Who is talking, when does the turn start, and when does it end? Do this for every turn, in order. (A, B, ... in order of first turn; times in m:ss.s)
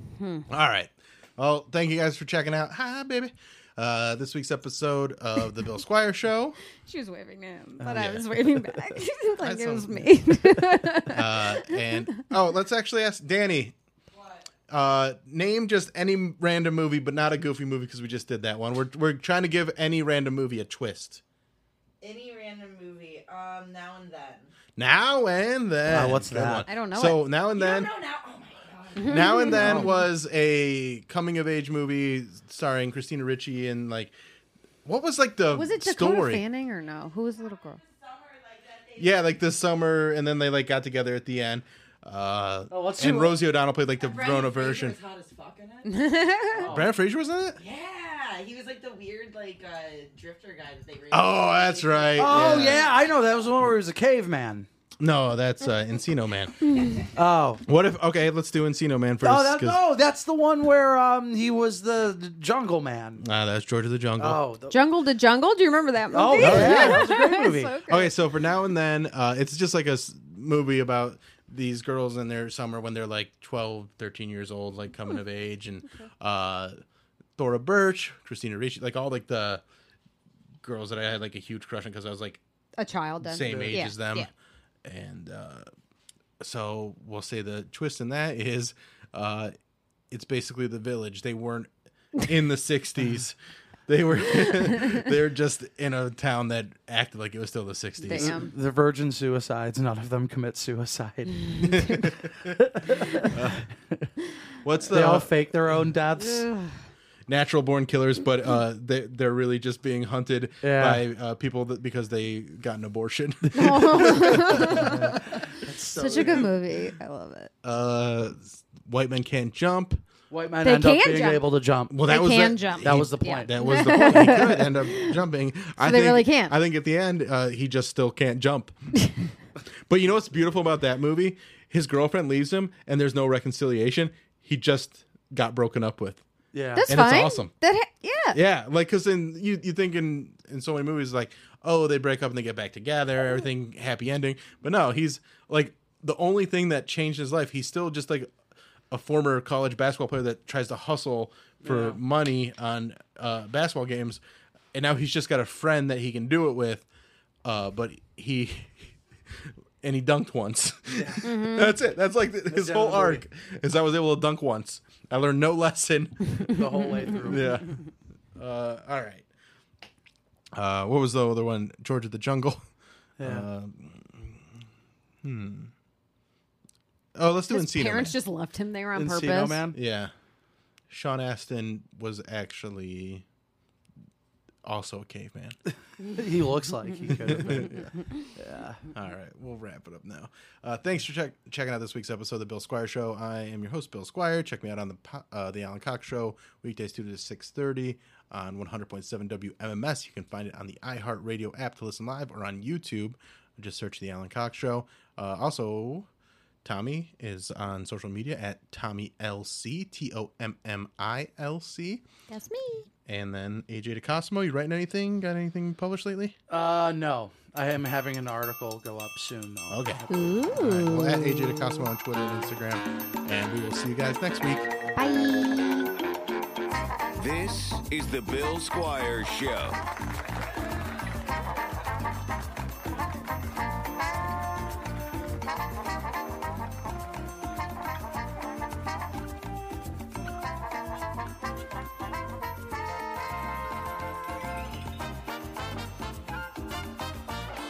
0:00.2-0:00.5 A
0:00.5-0:06.6 B
0:06.8-0:12.2 A
0:07.8-0:08.6 C
0:07.9-0:08.3 B
0:09.4-0:10.2 B
0:11.1-0:13.7 B
0:14.1-0:14.5 D
0:14.7-0:21.2 B
0:22.0-0:24.5 D
0:24.8-0:27.9 B
0:25.9-0:26.6 C
0:26.7-0:27.2 A
0:27.5-0:29.4 D
0:29.0-0:29.9 A
0:29.0-0:34.1 B
0:29.4-0:29.9 C
0:34.8-0:36.4 B
0:35.5-0:37.8 A
0:37.3-0:39.5 D
0:39.0-0:45.0 B
0:42.7-0:43.4 C
0:43.9-0:46.9 D
0:45.8-0:46.7 A
0:46.6-0:46.9 C
0:46.6-0:47.6 B
0:47.6-0:53.5 D
0:51.1-0:53.0 B
0:52.1-0:54.7 C
0:55.0-0:56.6 B
0:56.7-0:57.0 A
0:57.1-0:57.6 C
0:57.6-0:59.8 B
0:59.2-1:03.2 C
1:03.2-1:04.4 B
1:04.2-1:04.8 C
1:04.7-1:08.1 A
1:06.1-1:07.8 C
1:06.4-1:07.1 B
1:07.9-1:16.8 B
1:17.4-1:19.6 B
1:20.6-1:22.4 B
1:22.8-1:24.3 A
1:23.2-1:24.3 B
1:23.4-1:23.8 C
1:24.8-1:25.7 B
1:26.4-1:29.5 B
1:30.1-1:38.4 B
1:38.0-1:38.5 A
1:38.1-1:44.1 C
1:41.4-1:42.0 A
1:41.7-1:42.6 B
1:43.2-1:43.6 B
1:44.6-1:45.4 B
1:44.9-1:46.5 C
1:46.2-1:46.7 A
1:47.3-1:55.4 B
1:50.6-1:51.0 C
1:53.5-1:54.9 A
1:53.9-1:56.5 C
1:55.9-1:57.5 A
1:57.6-2:00.0 B
2:00.3-2:02.0 C
2:00.6-2:01.5 A
2:01.9-2:08.7 B
2:02.0-2:05.2 A
2:02.8-2:03.8 C
2:05.8-2:06.6 A
2:09.9-2:16.2 B
2:16.5-2:16.9 C
2:16.8-2:18.4 A
2:16.8-2:17.5 B
2:18.3-2:28.3 B
2:28.9-2:34.2 B
2:31.6-2:32.0 C
2:34.7-2:36.9 B
2:37.4-2:39.0 B
2:39.8-2:47.8 B
2:40.9-2:41.3 C
2:41.2-2:41.7 A
2:42.5-2:43.2 C
2:46.5-2:47.6 C
2:48.4-2:49.2 B
2:50.5-2:52.6 B
2:53.2-2:53.5 C
2:53.2-2:54.4 B
2:55.2-2:55.7 B
2:57.1-2:58.2 B
2:57.5-2:59.6 A
2:59.0-2:59.8 C
2:59.7-3:00.1 B
3:00.9-3:03.2 B
3:04.6-3:05.6 B
3:06.0-3:07.8 C
3:07.2-3:07.9 B
3:08.4-3:08.8 C
3:08.9-3:26.1 B
3:26.6-3:32.0 B
3:32.3-3:32.9 A
3:33.0-3:36.4 B
3:36.5-3:40.2 C
3:39.7-3:44.7 B
3:40.1-3:41.8 A
3:45.0-3:45.9 A
3:47.2-3:49.8 E